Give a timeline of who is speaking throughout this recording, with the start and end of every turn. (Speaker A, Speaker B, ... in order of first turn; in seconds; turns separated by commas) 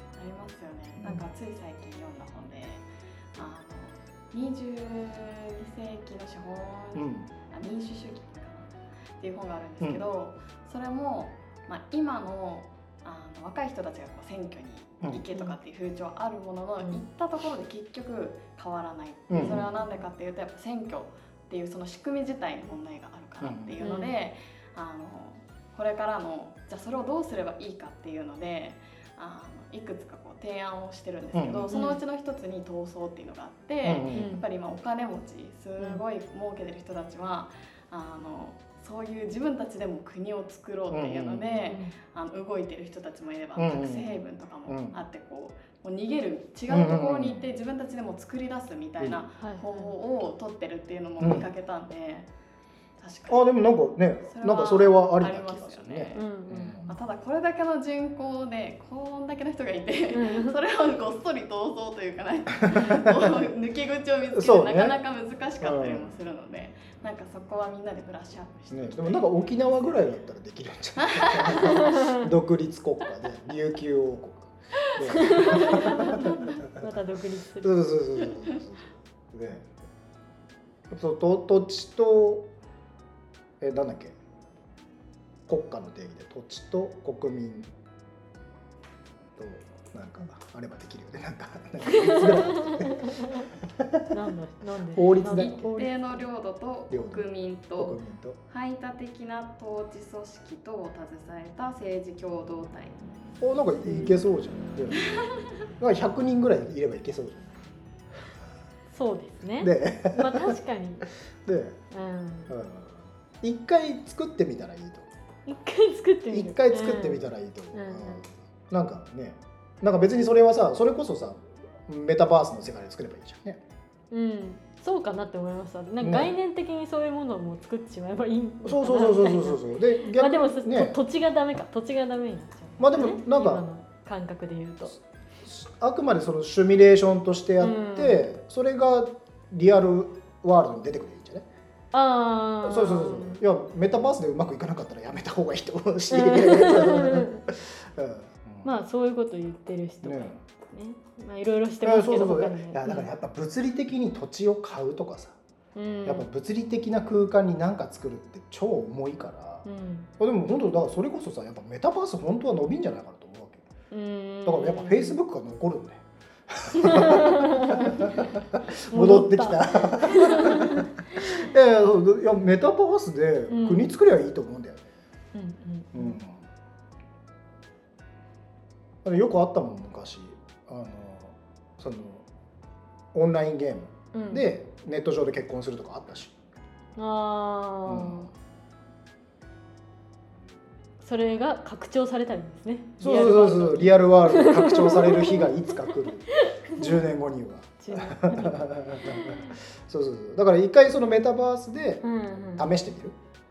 Speaker A: 0.1-52.3, Speaker B: 6.9-7.3, Speaker B: 19.3-19.7, Speaker B: 23.4-23.8, Speaker C: 23.8-24.1, Speaker B: 31.3-31.7, Speaker C: 31.7-32.0, Speaker B: 33.8-34.4, Speaker C: 34.1-34.4, Speaker B: 40.9-41.5, Speaker C: 41.4-42.0, Speaker B: 43.5-45.0, Speaker B: 46.7-47.5, Speaker C: 49.4-49.9, Speaker B: 51.2-51.5, Speaker A: 53.0-53.6, Speaker B: 53.3-56.9, Speaker A: 54.2-56.3, Speaker C: 56.1-56.9, Speaker A: 56.9-70.0, Speaker C: 60.1-60.6, Speaker B: 62.8-63.1, Speaker B: 64.3-65.0, Speaker B: 65.6-66.1, Speaker B: 68.7-76.6, Speaker A: 71.0-72.0, Speaker C: 71.7-72.2, Speaker C: 75.0-77.8, Speaker B: 77.6-79.7, Speaker B: 80.9-82.5, Speaker B: 83.6-84.2, Speaker B: 85.5-87.7, Speaker B: 89.4-94.0, Speaker C: 91.9-93.5, Speaker C: 94.1-96.2, Speaker B: 94.9-95.8, Speaker A: 95.4-103.0, Speaker B: 96.9-98.4, Speaker B: 103.4-105.1, Speaker C: 103.8-104.1, Speaker A: 105.0-105.3, Speaker B: 105.8-107.5, Speaker C: 108.9-111.0, Speaker B: 109.6-110.5, Speaker B: 111.5-111.8, Speaker C: 111.9-112.5, Speaker B: 112.5-115.1, Speaker C: 115.5-118.2, Speaker B: 116.3-123.6, Speaker C: 124.1-135.0, Speaker B: 126.0-126.3, Speaker B: 128.6-131.0, Speaker B: 132.8-133.6, Speaker B: 135.4-141.5, Speaker C: 137.6-138.3, Speaker C: 141.9-143.4, Speaker B: 142.6-148.7, Speaker C: 146.1-147.4, Speaker C: 148.6-153.1, Speaker B: 150.0-150.4, Speaker B: 151.8-155.4, Speaker C: 155.8-156.3, Speaker B: 156.0-159.6, Speaker C: 159.6-160.1, Speaker B: 160.2-163.6, Speaker C: 163.9-165.2, Speaker B: 164.4-174.8, Speaker C: 166.8-168.3, Speaker C: 168.9-171.5, Speaker C: 173.5-173.9, Speaker C: 175.3-176.2, Speaker B: 175.9-176.4, Speaker B: 179.0-182.2, Speaker B: 183.1-186.3, Speaker C: 184.1-184.5, Speaker C: 187.0-188.3, Speaker B: 187.9-188.3, Speaker C: 191.0-197.0, Speaker B: 193.0-202.0, Speaker C: 197.8-199.5, Speaker C: 202.0-202.7, Speaker B: 202.6-203.2